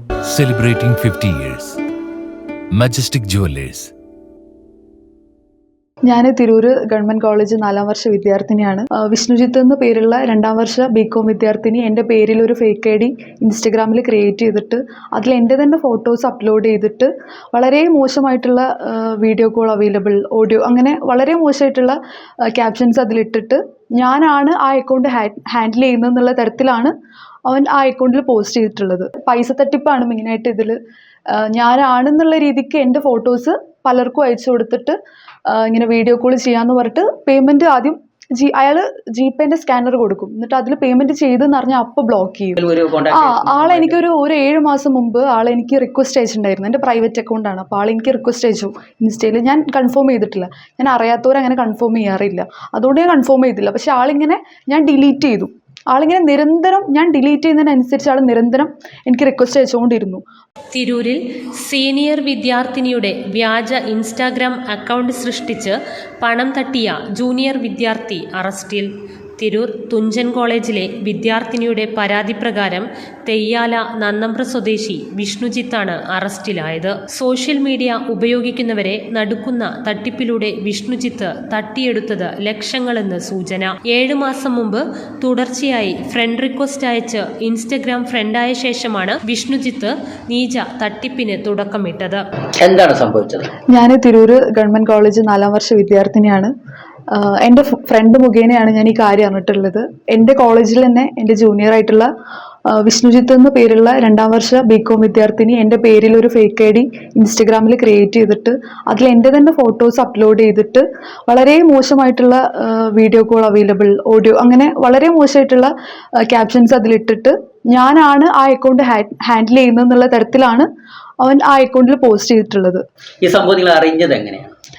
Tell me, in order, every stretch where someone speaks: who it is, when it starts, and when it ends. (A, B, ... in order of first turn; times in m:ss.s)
0:00.3-0:01.8 A
0:02.7-0:03.9 A
0:06.1-0:26.9 B
0:27.5-0:30.8 B
0:31.3-0:35.0 B
0:35.5-0:42.6 B
0:42.6-0:44.0 C
0:43.1-1:00.2 B
1:00.7-1:32.2 D
1:32.6-1:33.5 C
1:33.7-1:36.5 B
1:37.1-1:42.1 B
1:42.7-1:55.7 B
1:56.2-2:00.7 B
2:01.2-2:02.8 B
2:03.2-2:04.5 C